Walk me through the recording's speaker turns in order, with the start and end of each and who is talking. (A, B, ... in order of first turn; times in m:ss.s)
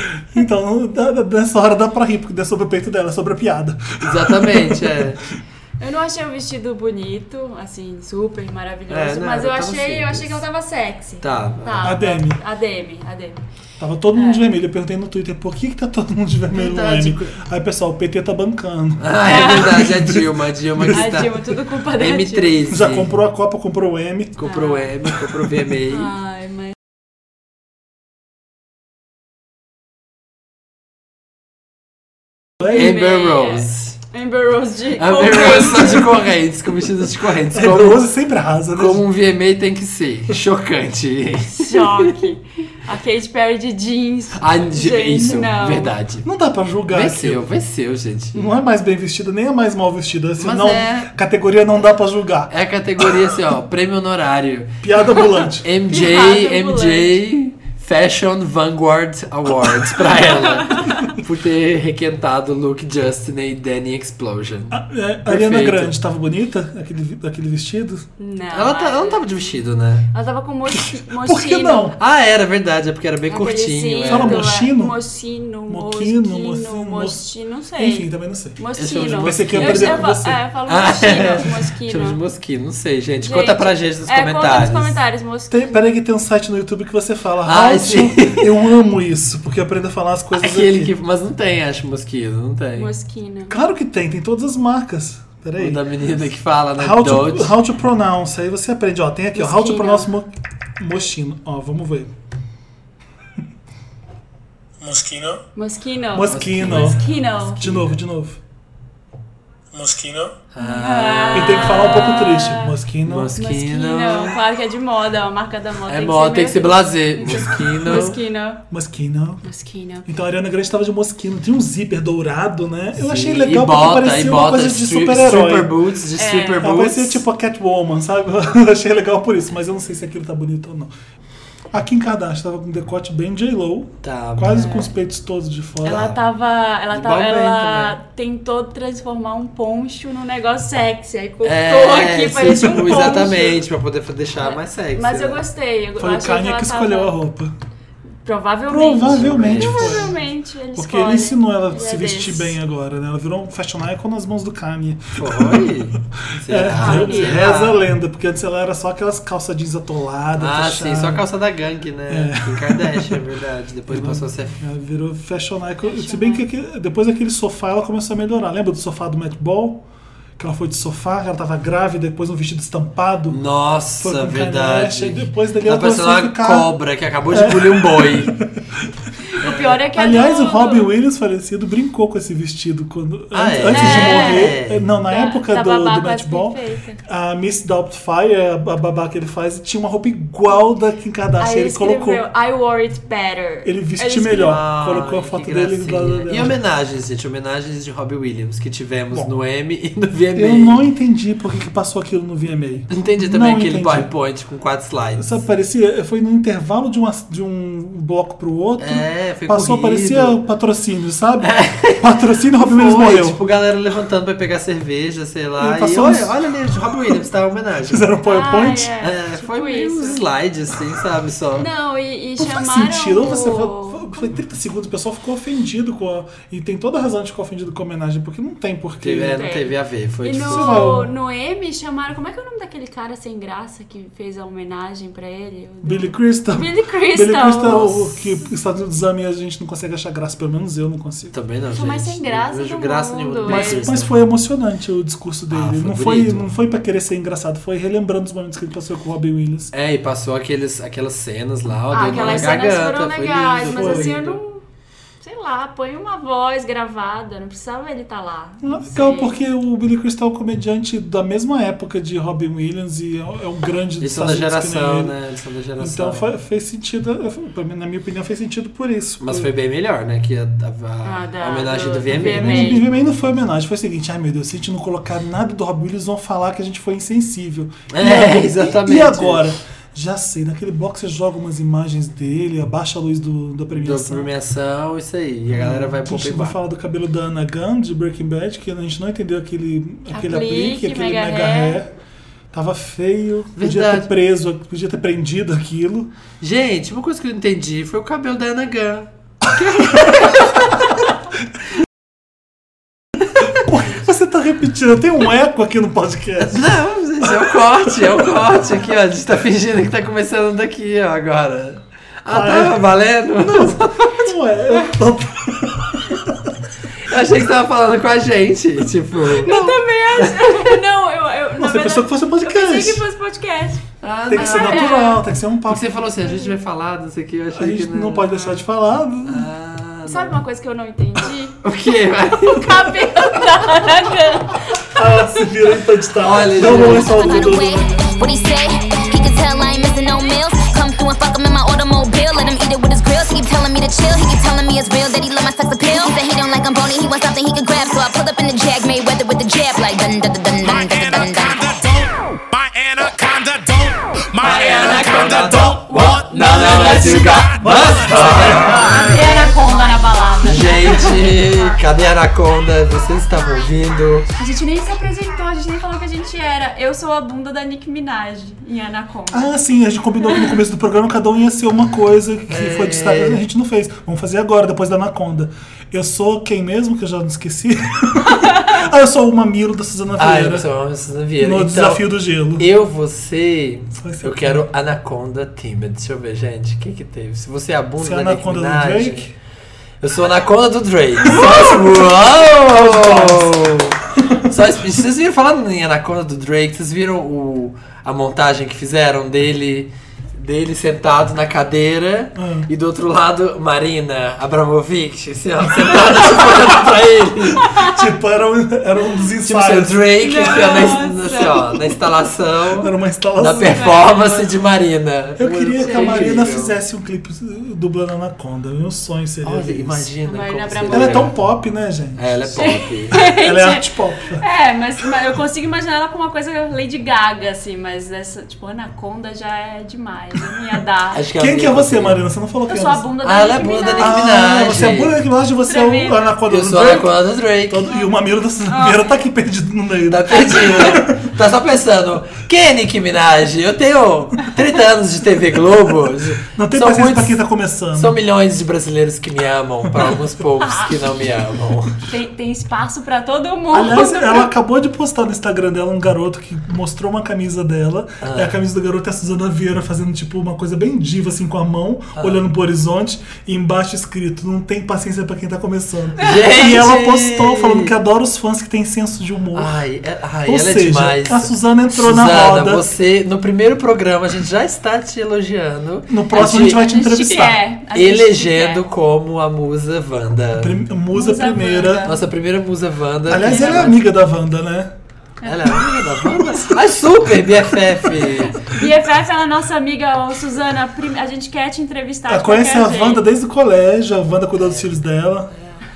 0:00.3-0:05.0 A
0:04.0-0:05.2 B
0:05.8-0:13.4 C
0:08.9-0:10.4 B
0:11.2-0:12.0 B
0:11.8-0:12.4 A
0:13.8-0:21.0 A
0:14.1-0:14.4 C
0:16.5-0:17.4 B
0:19.0-0:23.1 B
0:19.2-0:19.9 C
0:20.9-0:22.6 C
0:22.7-0:24.4 A
0:24.4-0:26.1 B
0:24.4-0:24.9 C
0:25.9-0:26.8 C
0:32.6-0:32.9 A
0:32.6-0:36.2 C
0:32.7-0:34.0 B
0:35.0-0:38.0 B
0:37.5-0:39.0 A
0:38.7-0:42.2 B
0:41.6-0:46.0 C
0:44.4-0:46.2 B
0:46.2-0:47.4 A
0:46.9-0:48.5 B
0:48.3-0:52.5 A
0:50.4-0:51.1 B
0:52.5-1:06.0 B
0:54.8-0:55.7 A
0:55.9-0:57.2 C
1:00.2-1:01.1 C
1:04.7-1:08.0 A
1:08.2-1:09.5 C
1:08.5-1:10.1 B
1:10.1-1:12.0 C
1:10.8-1:12.0 A
1:12.0-1:14.5 B
1:13.3-1:22.2 C
1:14.1-1:15.0 A
1:15.7-1:17.3 A
1:17.8-1:20.4 A
1:18.8-1:20.1 B
1:20.7-1:25.0 B
1:23.2-1:25.9 C
1:25.5-1:30.9 A
1:27.4-1:28.6 B
1:30.4-1:32.9 B
1:32.8-1:33.5 C
1:33.5-1:35.8 A
1:35.6-1:37.6 B
1:36.8-1:42.1 A
1:39.4-1:40.1 C
1:44.8-1:45.4 A
1:45.6-1:47.6 C
1:46.1-1:47.0 A
1:46.2-1:48.0 B
1:47.6-1:48.4 A
1:49.7-1:50.4 A
1:50.5-1:52.2 B
1:50.6-1:52.8 C
1:51.3-1:53.3 A
1:53.0-1:54.4 B
1:53.4-1:58.6 C
1:55.9-1:58.2 B
1:57.3-1:57.8 A
1:58.7-1:59.4 A
1:59.4-2:00.1 C
2:00.1-2:05.8 A
2:03.0-2:07.2 B
2:06.2-2:06.8 C
2:06.6-2:10.9 A
2:11.7-2:16.1 A
2:14.0-2:14.7 B
2:14.5-2:14.9 C
2:15.8-2:23.6 C
2:15.9-2:16.2 B
2:16.9-2:18.0 B
2:21.4-2:25.4 B
2:22.6-2:23.2 A
2:24.4-2:27.1 C
2:26.0-2:27.5 A
2:28.2-2:32.6 C
2:28.7-2:30.2 A
2:29.0-2:30.1 B
2:30.8-2:35.7 A
2:35.2-2:37.8 B
2:36.5-2:41.3 A
2:36.7-2:37.5 C
2:40.4-2:44.6 B
2:42.1-2:43.2 A
2:43.9-2:49.8 A
2:45.8-2:46.4 C
2:50.4-2:53.4 A
2:53.3-2:58.4 B
2:54.0-2:56.7 A
2:57.3-2:58.4 A
2:59.3-3:01.0 C
2:59.4-2:59.8 B
2:59.9-3:12.2 A
3:03.3-3:04.8 B
3:03.7-3:07.0 C
3:11.4-3:14.6 C
3:13.6-3:16.6 A
3:14.4-3:20.8 B
3:20.4-3:24.1 A
3:22.9-3:25.4 B
3:25.2-3:33.4 A
3:28.8-3:30.4 B
3:31.4-3:38.1 B
3:35.6-3:36.3 A
3:37.9-3:38.9 A
3:38.3-3:40.2 C
3:39.0-3:41.7 B
3:41.6-3:44.3 C
3:42.4-3:49.4 A
3:49.0-3:50.9 B
3:49.3-3:57.9 C
3:50.5-3:51.1 A
3:55.8-4:01.4 A
3:57.6-3:58.3 B
4:01.3-4:04.1 B
4:01.7-4:03.9 C
4:03.5-4:09.7 A
4:05.5-4:06.5 B
4:09.7-4:14.4 B
4:11.9-4:14.6 C
4:12.1-4:12.5 A
4:13.7-4:14.1 A
4:15.2-4:19.4 C
4:18.6-4:25.2 A
4:24.0-4:26.2 B
4:25.8-4:29.5 A
4:29.2-4:32.8 B
4:31.0-4:32.9 C
4:32.1-4:44.3 A
4:37.9-4:39.5 B
4:43.7-4:46.6 B
4:45.5-4:51.9 A
4:50.1-4:51.8 C
4:52.5-4:56.1 A
4:53.6-4:54.1 B
4:56.4-5:00.7 B
5:03.5-5:06.7 A
5:06.5-5:14.3 B
5:12.3-5:12.8 A
5:13.4-5:16.3 A
5:17.0-5:20.6 B
5:19.4-5:25.2 C
5:21.6-5:23.0 A
5:24.0-5:25.0 B
5:24.3-5:25.9 A
5:25.7-5:28.3 B
5:27.5-5:29.5 A
5:28.3-5:28.6 C
5:29.2-5:30.4 B
5:30.1-5:31.6 C
5:31.6-5:33.2 B
5:32.5-5:34.9 C
5:34.9-5:38.2 A
5:36.2-5:37.6 B
5:36.6-5:51.8 D
5:50.6-5:58.8 E
5:54.4-5:59.5 B
5:55.9-5:57.4 C
5:57.6-5:59.2 A
5:58.7-6:01.8 C
6:00.4-6:04.3 B
6:04.4-6:09.6 C
6:09.3-6:20.7 A
6:12.5-6:13.4 B
6:20.2-6:29.3 B
6:21.4-6:22.7 A
6:24.0-6:24.6 A
6:28.0-6:29.3 A
6:30.0-6:47.7 B
6:32.7-6:33.6 A
6:42.4-6:42.7 A
6:45.8-6:46.9 A
6:47.6-6:50.5 A
6:49.4-6:56.8 B
6:50.2-6:51.9 C
6:52.8-6:53.9 A
6:53.5-6:54.5 C
6:55.4-7:00.1 A
6:55.8-6:56.4 C
6:59.4-7:01.4 B
7:00.2-7:01.3 C
7:00.9-7:02.4 A
7:02.2-7:03.2 B
7:02.5-7:03.9 C
7:03.1-7:04.4 A
7:04.4-7:11.2 C
7:11.1-7:12.2 B
7:11.4-7:13.0 A
7:12.7-7:14.2 C
7:13.2-7:15.2 B
7:14.0-7:21.3 A
7:15.7-7:16.4 C
7:16.5-7:18.0 B
7:18.7-7:19.2 C
7:20.1-7:27.4 B
7:26.5-7:28.2 A
7:27.9-7:32.0 B
7:30.6-7:31.0 C
7:32.1-7:34.5 C
7:33.7-7:49.8 A
7:38.2-7:38.6 B
7:42.2-7:42.4 B
7:46.2-7:47.9 B
7:49.5-7:56.8 B
7:50.5-7:52.9 A
7:56.1-7:57.6 A
7:56.4-7:58.8 C
7:57.9-8:00.8 B
8:00.6-8:02.1 A
8:01.1-8:02.2 C
8:02.0-8:04.1 B
8:03.3-8:04.9 A
8:03.4-8:03.9 C
8:05.4-8:05.8 C
8:05.4-8:08.6 B
8:08.6-8:13.2 C
8:12.3-8:15.5 A
8:14.6-8:14.9 B